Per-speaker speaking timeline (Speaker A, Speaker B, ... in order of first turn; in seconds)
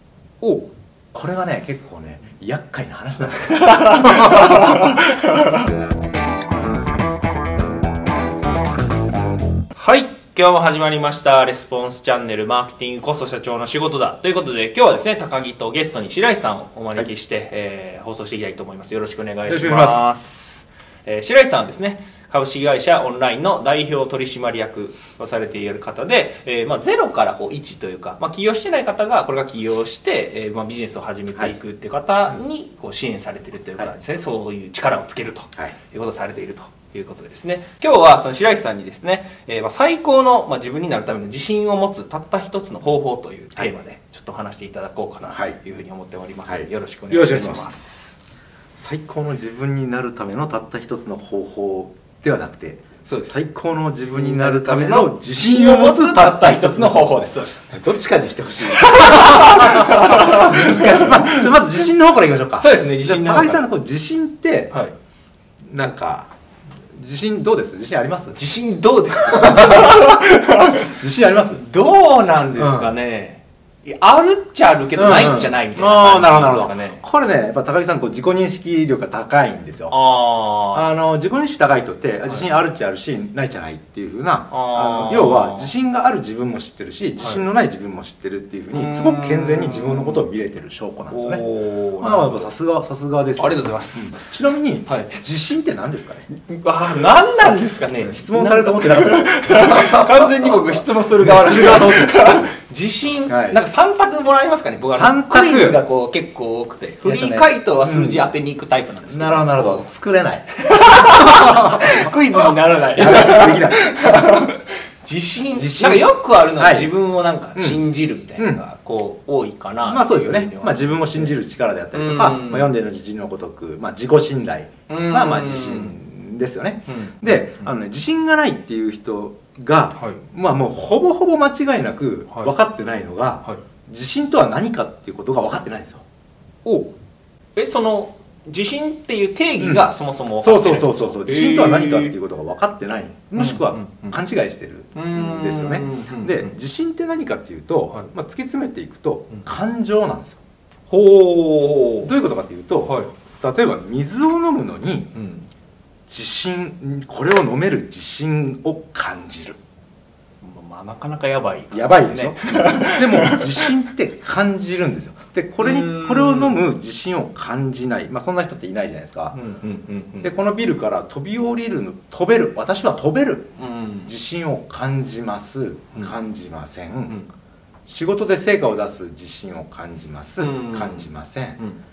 Speaker A: 0.4-4.8, 19.5-20.2, 45.3-45.6, 46.5-48.1, 48.7-64.7, 65.6-66.3, 66.9-68.4, 69.2-70.2, 70.8-71.6, 72.6-72.9, 75.0-80.0, 80.7-91.4, 92.0-96.2, 98.0-100.6, 101.2-102.5, 103.3-103.6, 104.9-105.8, 107.0-108.3, 109.1-114.1, 115.5-116.9, 117.5-117.8, 118.3-118.6, 119.8-136.0, 139.6-150.4, 152.0-155.1, 156.1-159.6, 161.7-169.4, 170.2-173.5, 174.1-177.2, 177.9-181.6
Speaker B: 3.5-5.5, 9.7-47.8, 53.0-53.4, 54.1-57.7, 58.7-61.4, 62.6-63.6, 68.3-70.9, 71.5-77.0, 79.9-80.8, 84.5-85.7, 88.7-90.2, 91.1-92.5, 93.4-94.3, 94.8-95.2, 96.3-109.9, 110.6-121.3, 121.9-122.7, 124.9-125.9, 126.9-127.7, 129.9-130.2, 137.6-142.1, 143.4-144.1, 144.9-146.5, 150.9-152.1, 152.8-153.1, 155.1-155.4, 160.4-163.7, 165.6-166.6, 169.3-170.3, 173.6-174.1, 180.4-181.8